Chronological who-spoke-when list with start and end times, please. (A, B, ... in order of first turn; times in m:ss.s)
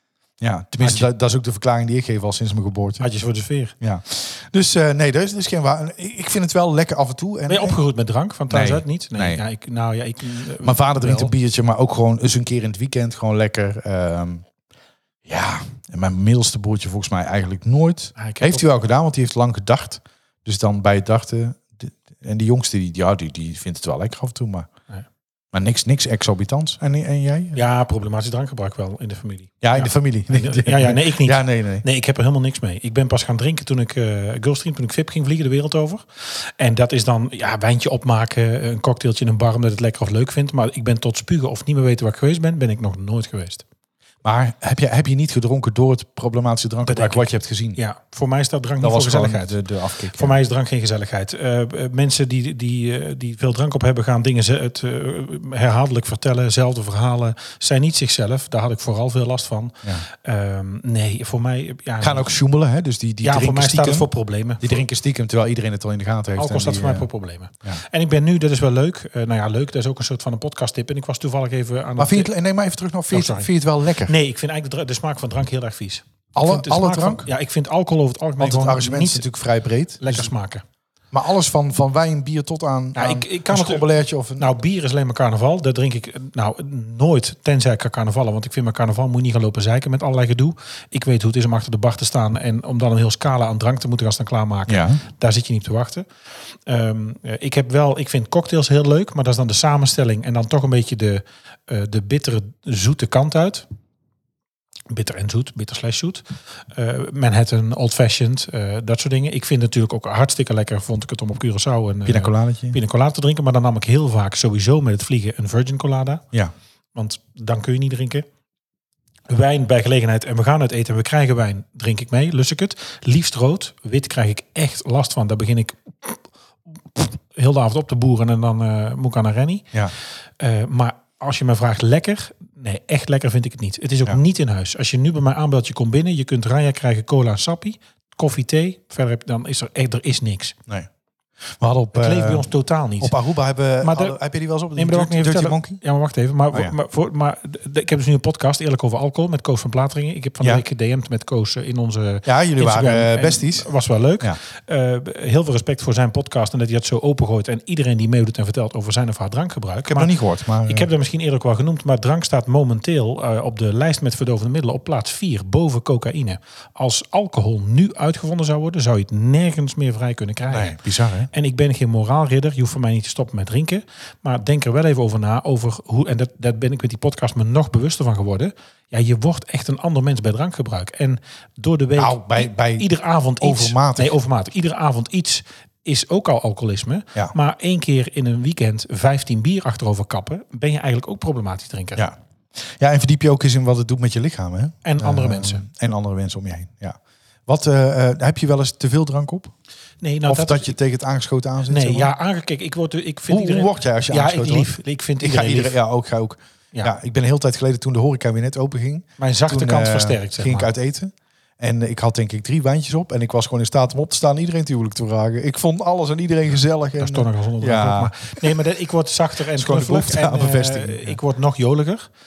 0:00.4-0:03.1 A
0:00.8-0:01.1 B
0:03.0-0:03.7 B
0:03.8-0:07.8 A
0:07.5-0:11.3 B
0:08.5-0:09.4 A
0:10.6-0:14.4 A
0:15.2-0:24.7 A
0:18.2-0:18.6 B
0:25.5-0:27.6 A
0:27.5-0:43.6 B
0:29.6-0:31.8 A
0:44.2-0:47.8 A
0:46.8-0:49.6 B
0:48.8-0:50.4 A
0:50.1-1:02.3 B
1:02.0-1:04.1 A
1:03.2-1:04.8 B
1:04.6-1:07.1 A
1:06.4-1:12.3 B
1:12.0-1:14.1 A
1:13.1-1:13.5 B
1:14.0-1:19.2 B
1:16.3-1:17.3 A
1:18.4-1:20.3 A
1:20.0-1:20.6 B
1:21.1-1:24.6 A
1:22.9-1:23.8 B
1:24.4-1:43.7 B
1:34.7-1:35.0 A
1:44.9-1:56.2 B
1:52.0-1:52.8 A
1:56.9-1:58.2 B
1:59.3-2:06.3 B
2:06.9-2:09.7 B
2:10.4-2:20.6 B
2:21.6-2:22.5 A
2:21.9-2:23.2 B
2:23.0-2:25.8 A
2:23.8-2:24.2 B
2:24.7-2:40.1 B
2:32.2-2:33.7 A
2:39.9-2:40.9 A
2:40.6-2:50.8 B
2:50.5-2:51.3 A
2:51.3-3:12.0 B
3:02.0-3:02.9 A
3:03.4-3:04.1 A
3:12.0-3:19.5 A
3:14.8-3:15.6 B
3:20.0-3:20.7 B
3:20.3-3:22.1 A
3:21.6-3:25.8 B
3:23.3-3:38.6 A
3:29.2-3:30.7 B
3:37.0-3:42.1 B
3:39.5-3:41.2 A